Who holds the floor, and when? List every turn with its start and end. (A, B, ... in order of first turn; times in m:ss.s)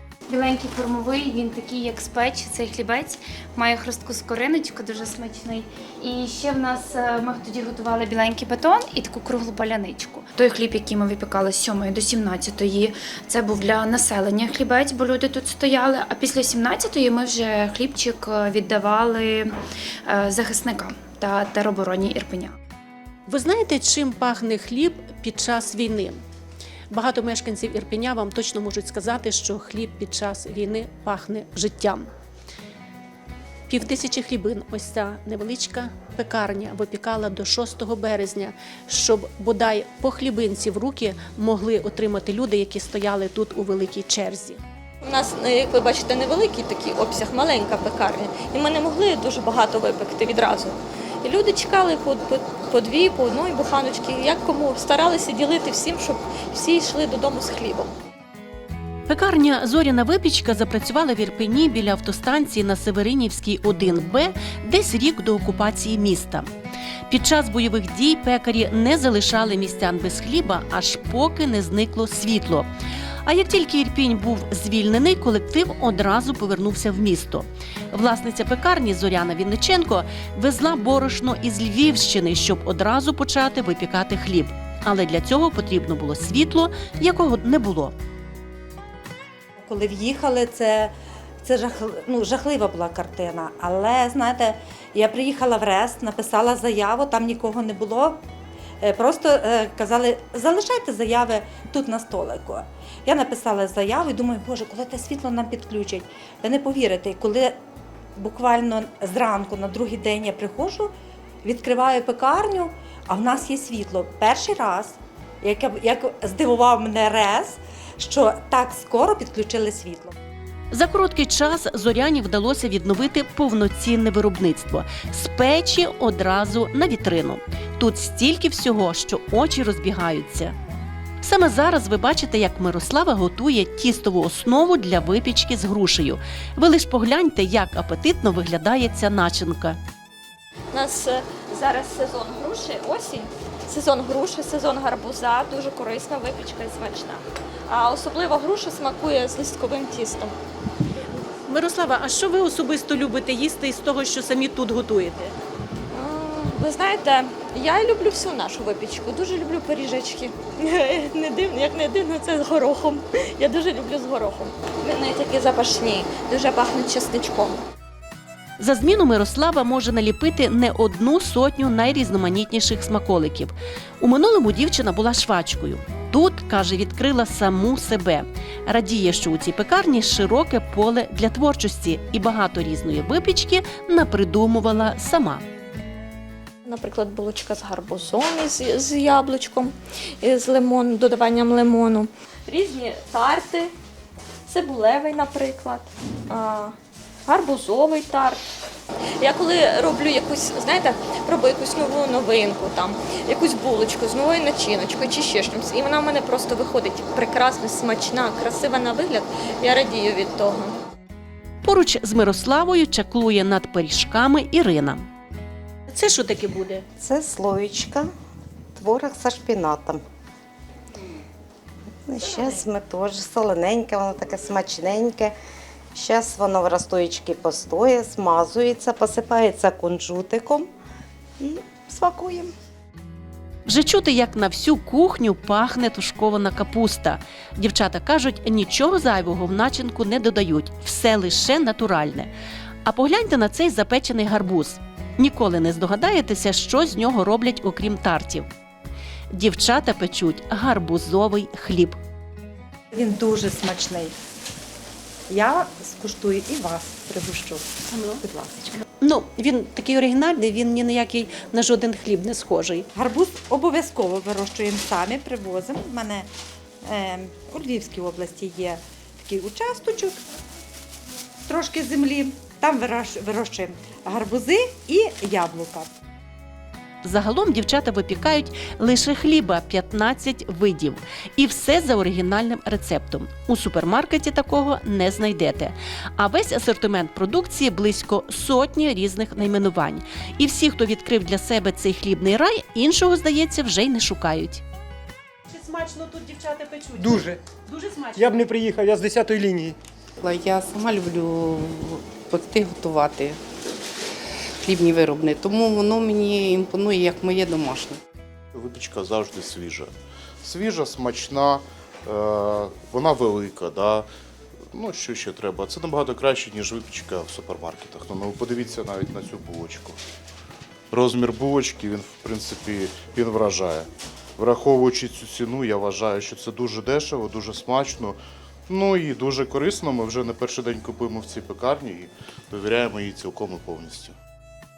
0:00.3-0:19.5 A
0:20.1-0:22.6 A
0:23.3-0:26.2 B
0:26.9-0:32.1 B
0:33.7-0:44.6 B
0:45.0-0:57.9 C
0:59.1-1:06.5 B
1:07.1-1:12.7 B
1:13.2-1:28.0 B
1:29.6-1:30.9 D
1:31.4-1:38.2 D
1:38.8-1:47.6 D
1:48.2-1:50.9 D
1:51.4-2:00.2 D
2:00.7-2:10.5 B
2:11.2-2:19.8 B
2:20.7-2:30.4 C
2:31.5-2:35.3 B
2:35.9-2:47.6 C
2:48.6-3:05.4 B
3:06.6-3:13.7 C
3:14.5-3:18.4 C
3:19.2-3:30.8 C
3:31.6-3:35.1 B
3:35.9-3:36.8 B
3:37.0-3:38.1 E
3:38.8-3:40.0 E
3:42.1-3:45.4 E
3:45.9-3:50.7 E
3:51.4-3:52.5 E
3:53.7-4:02.3 B
4:02.8-4:08.5 B
4:09.3-4:12.0 B
4:12.9-4:14.1 D
4:15.3-4:18.8 D
4:17.9-4:18.2 B
4:19.0-4:22.9 B
4:23.0-4:26.3 D
4:26.8-4:30.2 D
4:31.5-4:35.9 D
4:37.0-4:54.6 B
4:55.5-4:58.4 B
4:57.0-4:57.4 F
4:58.2-4:59.8 F
5:00.2-5:03.4 G
5:04.6-5:08.0 G
5:08.5-5:14.1 H
5:14.7-5:20.0 H
5:20.9-5:28.2 H
5:28.7-5:34.2 H